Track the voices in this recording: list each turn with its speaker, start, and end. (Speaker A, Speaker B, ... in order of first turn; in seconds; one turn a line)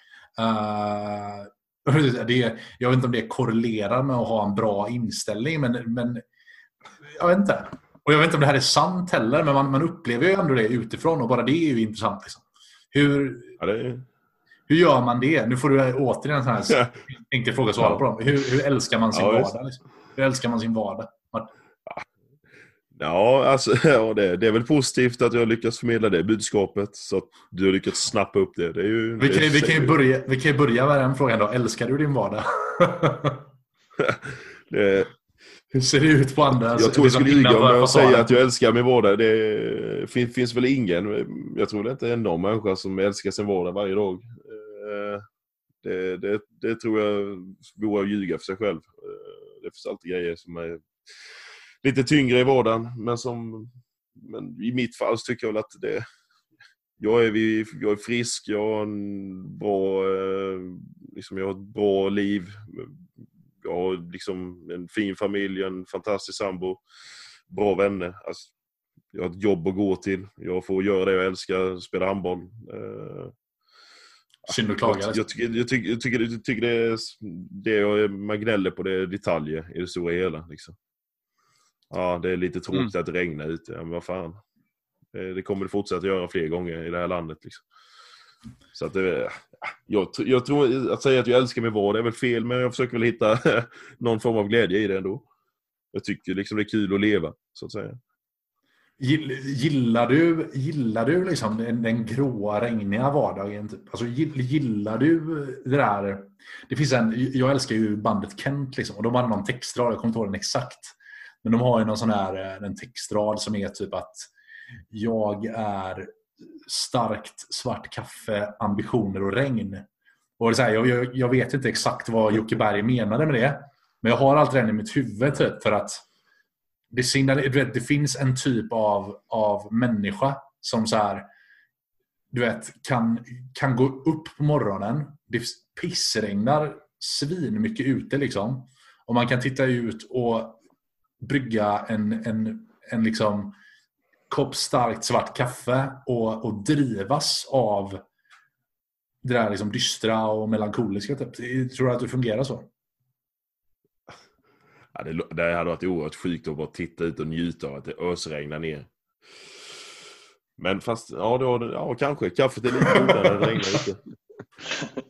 Speaker A: 0.4-6.2
Speaker A: 7.0-13.6
Speaker B: 13.6-14.1
Speaker A: 14.7-21.5
Speaker B: 17.8-18.1
Speaker B: 19.1-19.5
Speaker B: 22.9-30.0
Speaker A: 29.2-33.5
Speaker B: 34.0-35.1
Speaker A: 35.7-38.4
Speaker B: 36.7-45.3
Speaker B: 45.8-50.9
Speaker B: 51.8-56.1
Speaker B: 57.0-63.0
Speaker B: 63.6-66.8
Speaker B: 67.5-68.5
Speaker B: 69.1-73.3
Speaker A: 74.5-75.2
Speaker B: 74.5-80.8
Speaker B: 81.9-84.4
Speaker B: 85.1-87.6
Speaker B: 88.7-95.2
Speaker B: 95.9-98.0
Speaker A: 99.0-114.3
Speaker A: 114.9-119.9
Speaker A: 120.4-126.0
Speaker A: 126.9-131.3
Speaker A: 132.3-140.6
Speaker A: 141.2-143.6
Speaker A: 144.3-148.0
Speaker A: 149.2-152.7
Speaker B: 154.9-158.9
Speaker B: 160.6-164.0
Speaker A: 162.9-163.2